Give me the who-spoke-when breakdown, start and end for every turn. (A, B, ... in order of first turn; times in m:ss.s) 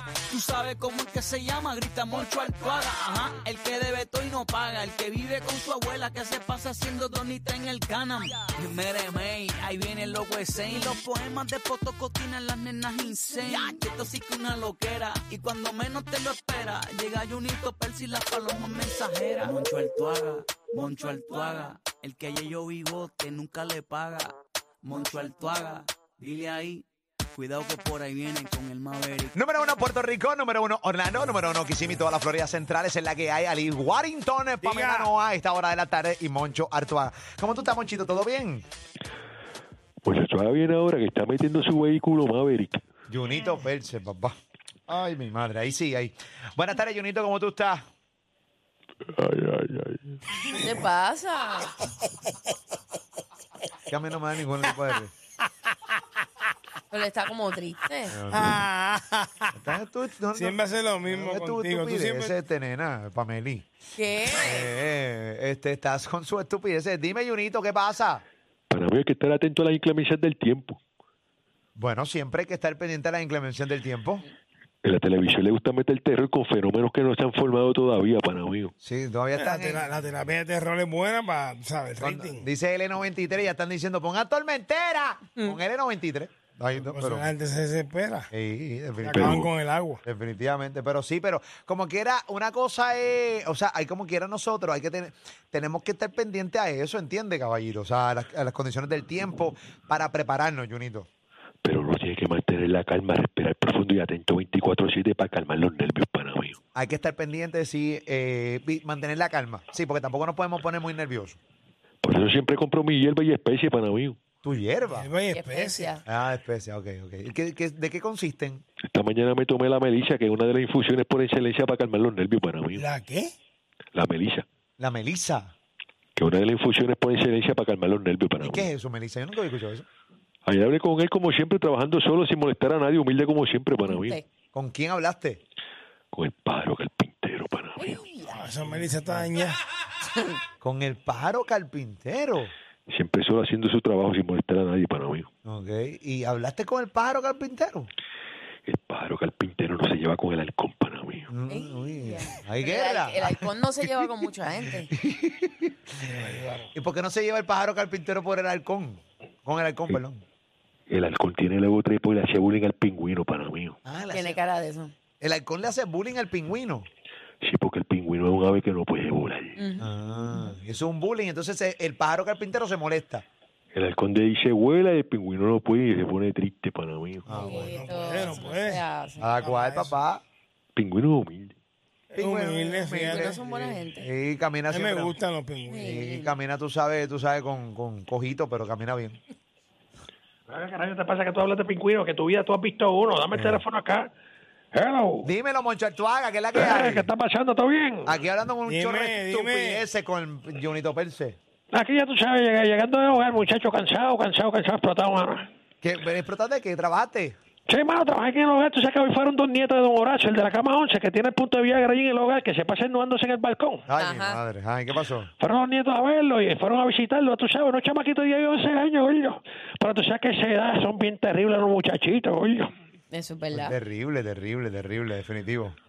0:00.3-0:29.3 A
0:29.3-0:38.7 B
0:34.6-0:35.1 C
0:40.0-0:42.8 D
0:43.1-0:44.4 B
0:44.9-0:47.8 B
0:49.1-0:50.2 D
0:50.6-0:51.8 E
0:53.9-0:55.1 B
0:56.9-0:58.2 E
0:58.1-0:58.6 B
0:58.3-0:59.5 C
0:59.6-1:03.7 B
1:00.4-1:02.4 C
1:04.0-1:04.7 E
1:04.3-1:08.2 B
1:08.7-1:10.8 D
1:11.8-1:14.2 B
1:14.8-1:18.7 D
1:18.8-1:19.9 B
1:19.3-1:22.4 C
1:22.0-1:27.3 B
1:26.8-1:28.3 C
1:28.3-1:29.4 B
1:29.0-1:30.0 C
1:29.1-1:29.5 D
1:30.1-1:41.1 B
1:41.6-1:46.6 D
1:46.8-1:51.4 B
1:52.0-1:54.2 D
1:54.4-1:55.1 B
1:54.9-1:55.9 C
1:55.3-1:56.0 E
1:56.0-1:58.6 B
1:58.9-2:02.8 D
2:02.8-2:03.3 C
2:04.0-2:04.4 D
2:04.8-2:05.5 B
2:06.2-2:08.7 D
2:08.4-2:09.9 B
2:10.5-2:14.2 D
2:13.8-2:14.2 E
2:14.5-2:15.4 B
2:16.1-2:18.1 D
2:17.8-2:18.5 E
2:18.3-2:19.6 C
2:20.6-2:22.5 B
2:22.9-2:25.3 D
2:25.4-2:27.9 B
2:28.7-2:31.3 D
2:31.3-2:33.5 B
2:31.5-2:34.9 E
2:34.9-2:35.8 B
2:36.2-2:36.6 C
2:36.7-2:40.2 B
2:40.9-2:43.8 D
2:43.8-2:44.4 B
2:44.1-2:44.9 E
2:45.2-2:46.9 B
2:47.4-2:49.6 D
2:49.6-2:49.9 E
2:49.8-2:53.2 B
2:53.7-2:57.5 D
2:57.3-2:57.8 B
2:57.3-2:59.3 E
2:57.7-2:58.8 C
2:59.2-3:00.2 B
2:59.4-3:00.0 C
3:00.8-3:01.6 D
3:02.1-3:03.3 C
3:02.2-3:05.2 B
3:03.0-3:04.1 E
3:04.7-3:05.8 C
3:05.7-3:06.3 E
3:05.8-3:09.2 B
3:10.5-3:14.1 F
3:14.7-3:15.3 F
3:15.2-3:17.1 B
3:16.5-3:18.1 F
3:18.1-3:21.4 B
3:18.7-3:19.8 C
3:21.7-3:25.5 F
3:25.8-3:27.4 B
3:27.7-3:33.8 F
3:33.9-3:35.3 B
3:34.0-3:34.4 E
3:35.4-3:42.7 F
3:43.1-3:43.8 E
3:43.5-3:45.8 B